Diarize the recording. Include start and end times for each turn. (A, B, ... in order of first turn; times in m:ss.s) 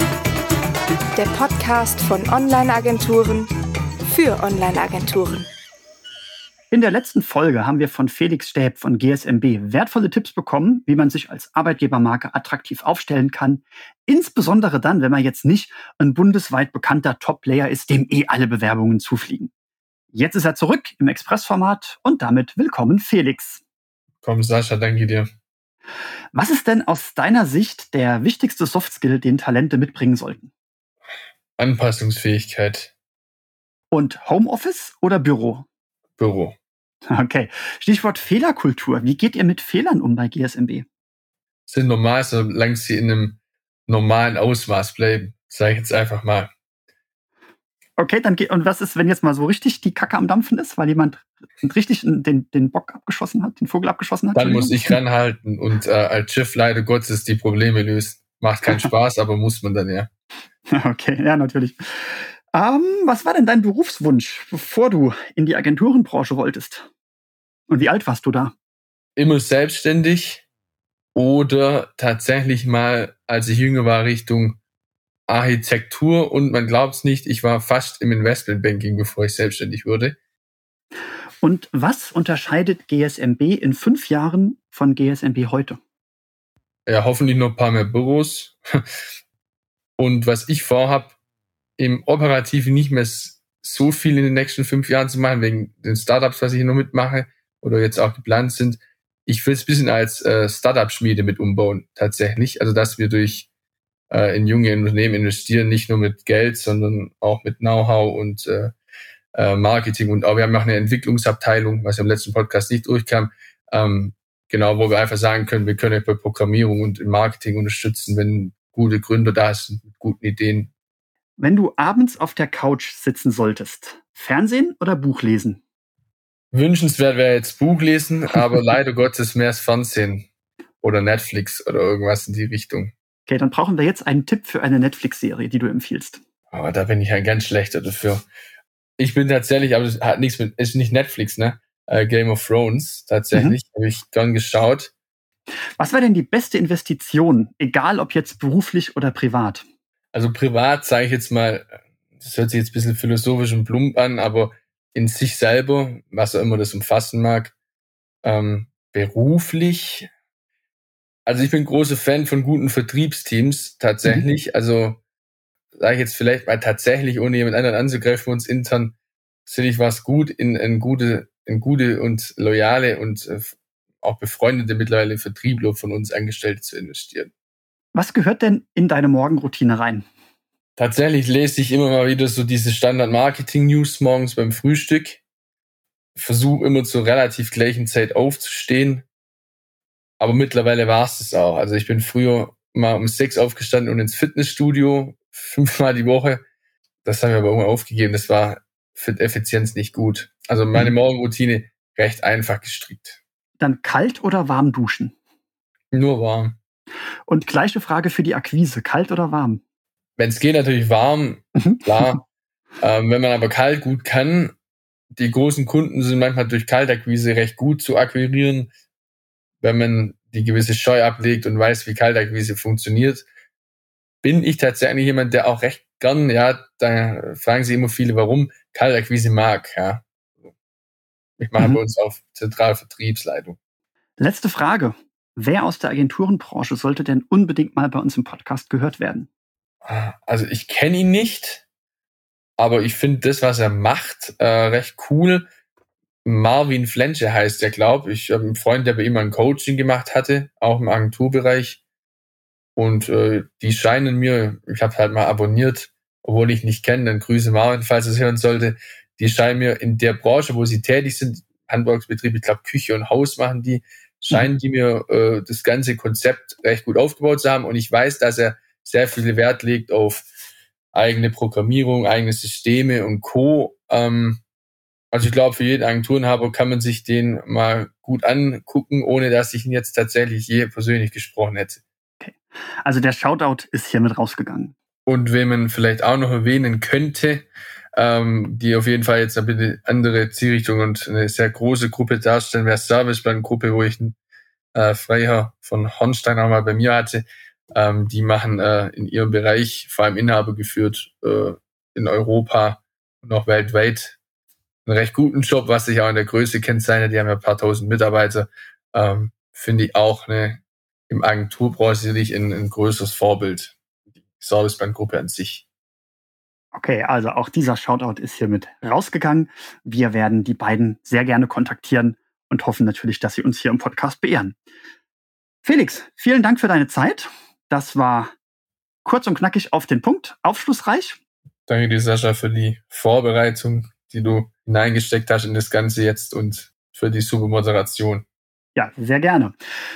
0:01.2-0:03.5 A
0:04.0-0:05.5 A
0:06.7-0:19.5 B
0:20.1-0:23.6 B
0:24.2-0:25.3 C
0:26.3-0:30.5 B
0:31.6-0:32.9 C
0:33.9-0:35.7 B
0:36.2-0:36.6 C
0:37.1-0:40.9 B
0:41.7-0:46.5 C
0:48.0-0:55.0 B
0:54.4-1:00.1 C
1:00.7-1:06.9 B
1:07.7-1:08.5 B
1:09.2-1:10.4 C
1:11.2-1:14.6 C
1:15.3-1:20.2 C
1:21.4-1:25.8 B
1:26.9-1:28.6 C
1:30.0-1:31.2 C
1:31.8-1:43.5 C
1:44.1-1:48.7 C
1:49.4-2:00.7 C
2:01.4-2:05.6 B
2:06.5-2:10.3 C
2:10.8-2:12.9 C
2:13.3-2:16.2 B
2:16.5-2:18.2 C
2:19.0-2:24.9 C
2:23.3-2:23.6 B
2:25.8-2:29.6 B
2:30.1-2:37.6 C
2:38.2-2:40.1 C
2:41.3-2:45.0 C
2:45.8-2:49.0 C
2:49.5-2:57.3 C
2:57.9-3:00.0 B
3:00.8-3:05.2 C
3:06.2-3:09.0 C
3:10.2-3:16.4 C
3:17.0-3:23.2 C
3:23.6-3:25.1 B
3:25.9-3:26.6 C
3:27.3-3:29.6 B
3:30.2-3:32.2 C
3:31.6-3:32.1 B
3:32.8-3:34.6 C
3:35.1-3:38.7 C
3:39.6-3:43.3 C
3:44.2-3:50.0 C
3:51.4-3:53.6 C
3:54.2-3:59.3 B
3:59.8-4:01.7 C
4:02.6-4:05.5 C
4:06.2-4:11.8 C
4:12.8-4:30.3 C
4:30.9-4:34.4 C
4:35.1-4:41.8 C
4:42.2-4:44.8 B
4:45.1-4:54.2 C
4:54.7-5:04.2 C
5:04.9-5:13.8 C
5:14.4-5:15.7 C
5:16.7-5:24.6 B
5:25.6-5:28.3 B
5:29.0-5:31.2 B
5:31.7-5:38.2 C
5:38.8-5:39.6 B